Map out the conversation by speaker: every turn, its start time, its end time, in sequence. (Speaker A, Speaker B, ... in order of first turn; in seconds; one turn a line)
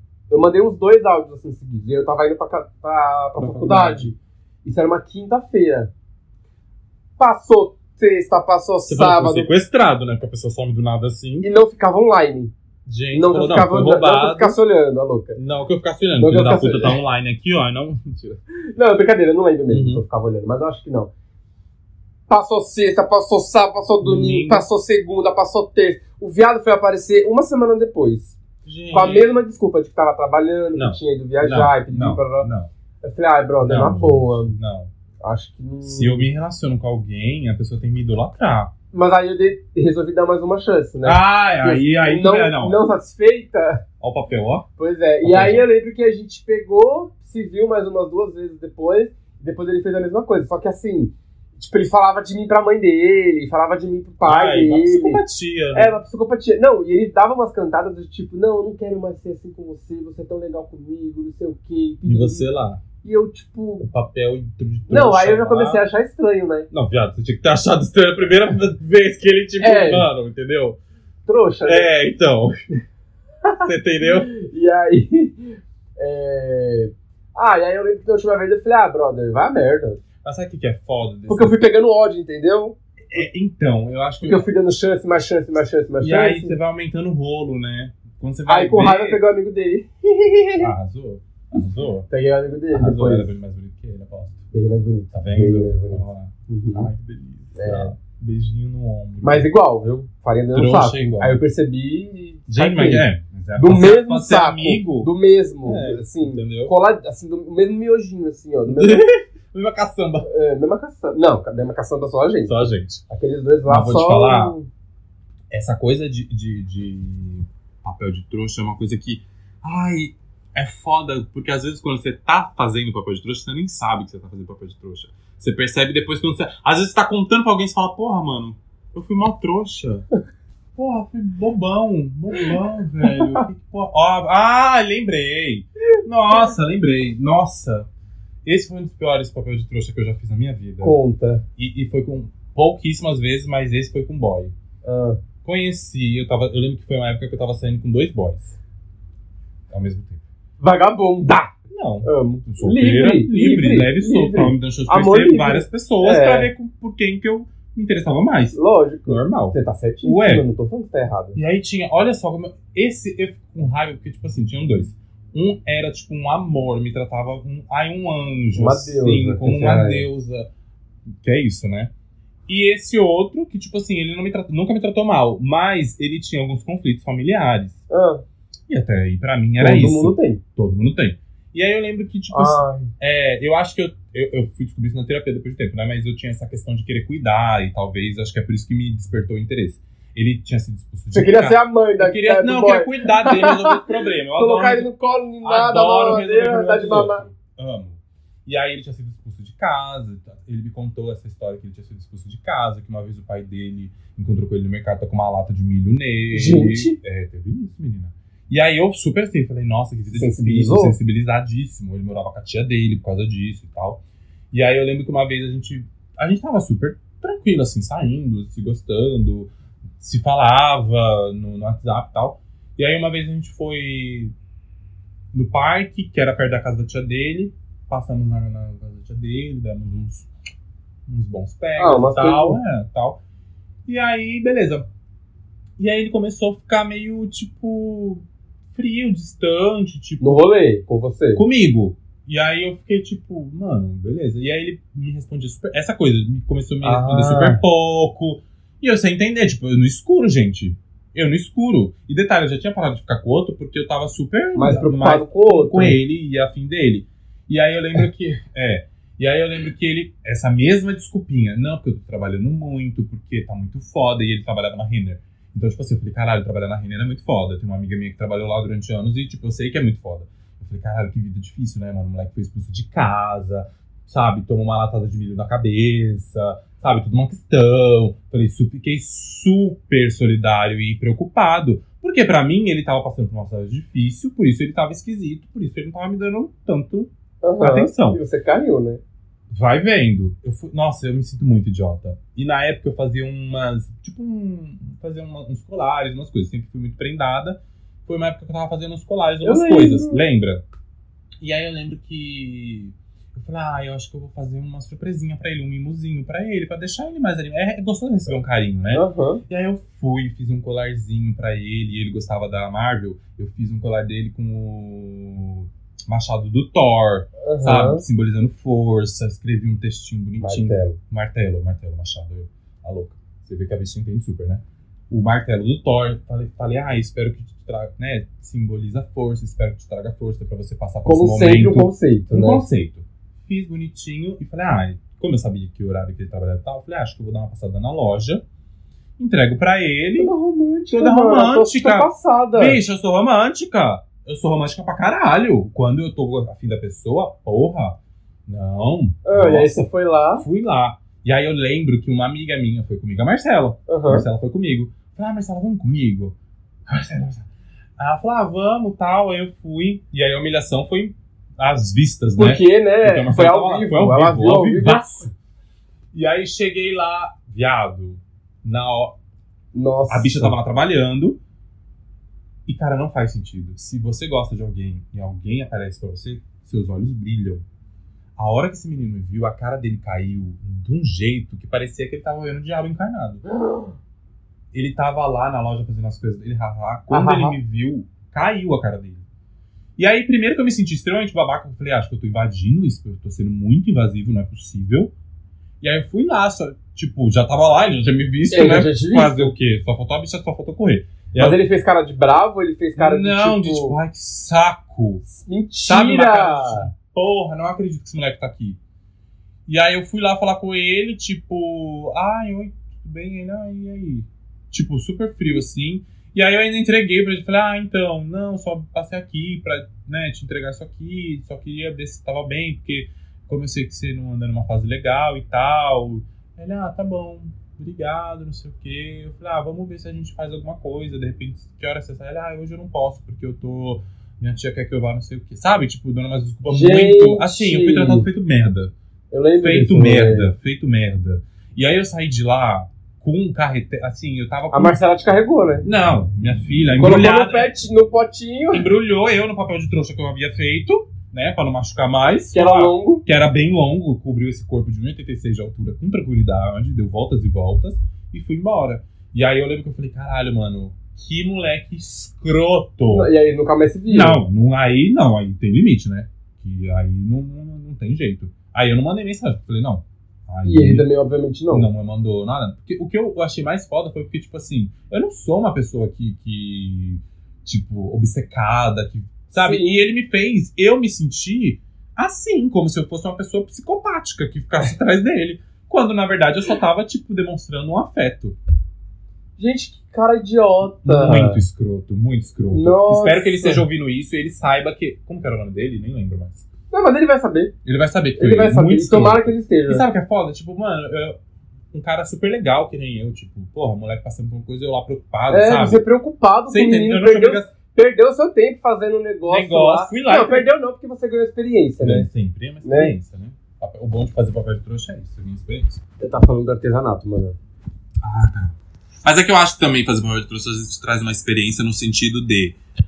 Speaker A: 0.3-5.9
Speaker B: 3.4-4.1
Speaker A: 7.2-9.5
Speaker B: 8.9-11.5
Speaker A: 11.4-12.5
Speaker B: 12.8-14.6
Speaker A: 13.1-15.4
Speaker B: 15.3-18.4
Speaker A: 16.2-17.0
Speaker A: 18.7-21.1
Speaker B: 19.7-20.0
Speaker A: 22.3-28.4
Speaker B: 24.0-24.7
Speaker B: 28.6-29.4
Speaker A: 28.9-32.5
Speaker B: 30.7-32.7
Speaker A: 33.0-34.5
Speaker B: 33.6-34.9
Speaker A: 35.2-36.3
Speaker B: 35.8-38.7
Speaker A: 38.9-43.8
Speaker B: 41.0-42.8
Speaker B: 44.0-44.6
Speaker A: 44.8-55.2
Speaker B: 45.2-45.6
Speaker B: 54.2-56.0
Speaker A: 55.7-62.5
Speaker B: 62.0-62.8
Speaker A: 63.0-63.9
Speaker B: 63.8-65.8
Speaker A: 64.9-66.7
Speaker B: 66.7-70.8
Speaker A: 69.6-70.1
Speaker A: 71.2-71.9
Speaker B: 71.6-72.6
Speaker A: 73.6-80.0
Speaker B: 73.6-74.3
Speaker B: 80.2-81.6
Speaker A: 81.3-82.8
Speaker B: 83.1-84.5
Speaker A: 84.2-86.6
Speaker B: 86.0-89.2
Speaker A: 88.5-90.7
Speaker B: 90.6-92.1
Speaker A: 92.1-93.3
Speaker B: 92.7-94.5
Speaker A: 94.5-96.9
Speaker B: 95.1-99.5
Speaker A: 97.5-97.9
Speaker A: 99.2-109.1
Speaker B: 100.5-101.4
Speaker B: 102.5-105.1
Speaker B: 105.6-106.7
Speaker B: 108.7-110.3
Speaker A: 110.2-114.7
Speaker B: 112.4-113.0
Speaker B: 113.7-114.5
Speaker B: 115.5-130.0
Speaker B: 130.8-137.9
Speaker A: 133.1-133.4
Speaker B: 138.4-140.9
Speaker A: 140.8-141.4
Speaker B: 141.6-144.5
Speaker A: 144.8-145.2
Speaker B: 145.4-148.6
Speaker B: 149.7-150.2
Speaker A: 150.6-151.5
Speaker B: 151.7-160.4
Speaker A: 152.0-156.5
Speaker A: 158.5-161.4
Speaker B: 161.3-170.5
Speaker A: 168.5-170.0
Speaker B: 171.2-171.9
Speaker B: 172.5-177.8
Speaker A: 177.9-178.2
Speaker B: 178.7-194.9
Speaker A: 179.6-180.4
Speaker A: 182.3-182.9
Speaker A: 191.1-197.2
Speaker B: 195.4-214.0
Speaker A: 206.3-207.0
Speaker A: 210.1-210.9
Speaker B: 214.5-224.3
Speaker B: 225.3-230.3
Speaker B: 231.1-233.2
Speaker A: 231.8-232.6
Speaker B: 233.8-234.8
Speaker B: 235.8-240.5
Speaker A: 240.2-241.4
Speaker B: 241.3-288.2
Speaker A: 246.8-247.6
Speaker A: 254.5-256.0
Speaker A: 287.4-289.0
Speaker B: 289.5-300.6
Speaker A: 299.4-300.2
Speaker B: 301.4-338.4
Speaker A: 308.9-309.4
Speaker A: 317.4-318.0
Speaker A: 320.4-321.0
Speaker A: 331.0-332.6
Speaker B: 339.2-340.3
Speaker A: 340.2-342.8
Speaker B: 340.9-356.3
Speaker A: 349.2-350.4
Speaker A: 353.9-354.2
Speaker B: 356.9-357.5
Speaker B: 358.0-365.3
Speaker A: 362.4-365.3
Speaker B: 366.1-369.2
Speaker A: 369.7-370.5
Speaker B: 370.1-371.4
Speaker B: 372.7-377.6
Speaker B: 378.4-383.4
Speaker A: 383.5-383.9
Speaker B: 384.7-389.2
Speaker A: 387.1-387.6
Speaker B: 390.0-395.1
Speaker B: 395.8-401.6
Speaker A: 398.5-399.5
Speaker A: 401.3-403.9
Speaker B: 403.0-405.2
Speaker A: 405.2-406.9
Speaker B: 405.9-408.8
Speaker B: 409.6-438.9
Speaker A: 436.7-438.3
Speaker A: 439.3-440.5
Speaker B: 439.6-445.0
Speaker A: 444.7-445.9
Speaker B: 445.8-447.7
Speaker A: 447.0-448.9
Speaker B: 448.7-463.3
Speaker A: 452.5-453.2
Speaker A: 463.1-464.4
Speaker B: 464.1-471.1
Speaker A: 470.6-471.9
Speaker B: 471.7-488.6
Speaker A: 479.5-479.9
Speaker A: 489.6-491.6
Speaker B: 491.0-496.6
Speaker A: 492.7-493.8
Speaker A: 496.9-497.7
Speaker B: 497.8-501.4
Speaker A: 498.4-500.0
Speaker B: 501.9-506.0
Speaker A: 505.5-512.3
Speaker B: 506.7-507.7
Speaker B: 509.4-510.7
Speaker B: 512.0-516.0
Speaker A: 512.8-513.1
Speaker A: 516.2-517.5
Speaker B: 518.2-522.8